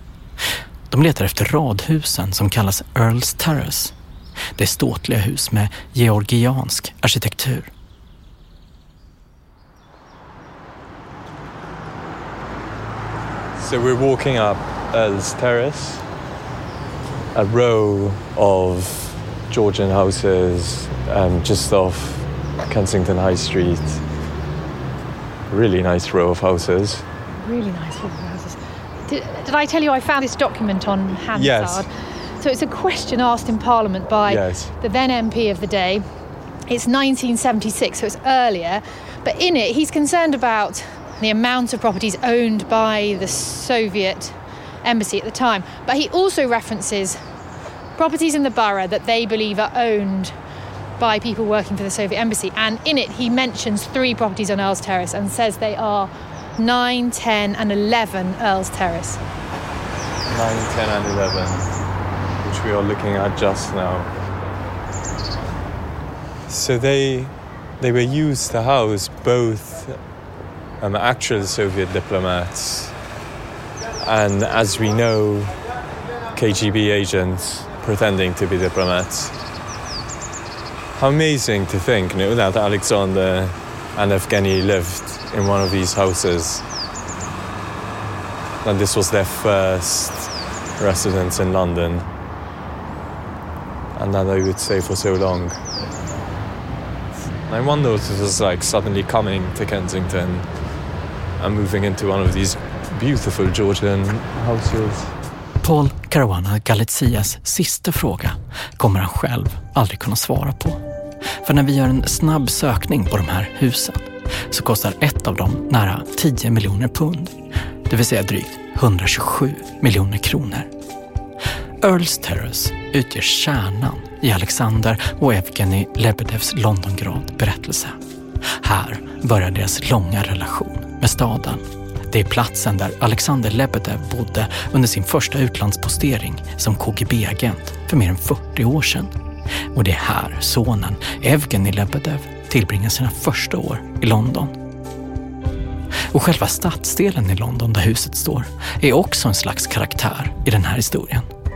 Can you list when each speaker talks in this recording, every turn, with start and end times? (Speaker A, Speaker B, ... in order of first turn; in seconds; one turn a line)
Speaker A: 0.9-3.9
Speaker A: 4.6-7.7
Speaker B: 13.6-16.1
Speaker B: 17.3-24.0
Speaker B: 25.5-27.1
Speaker C: 27.4-36.0
Speaker B: 31.3-31.9
Speaker B: 34.3-34.7
Speaker C: 36.7-47.2
Speaker C: 48.0-50.4
Speaker C: 51.0-59.2
Speaker B: 60.3-61.8
Speaker B: 62.4-64.1
Speaker B: 66.5-70.0
Speaker B: 70.8-73.0
Speaker B: 74.0-75.5
Speaker B: 76.3-79.3
Speaker B: 81.0-86.6
Speaker B: 88.6-92.1
Speaker B: 94.0-95.6
Speaker B: 97.5-100.5
Speaker B: 101.4-105.2
Speaker A: 105.6-110.8
Speaker A: 111.4-117.3
Speaker A: 117.9-120.7
Speaker A: 121.8-128.0
Speaker A: 128.5-139.1
Speaker A: 139.7-144.6
Speaker A: 146.1-151.3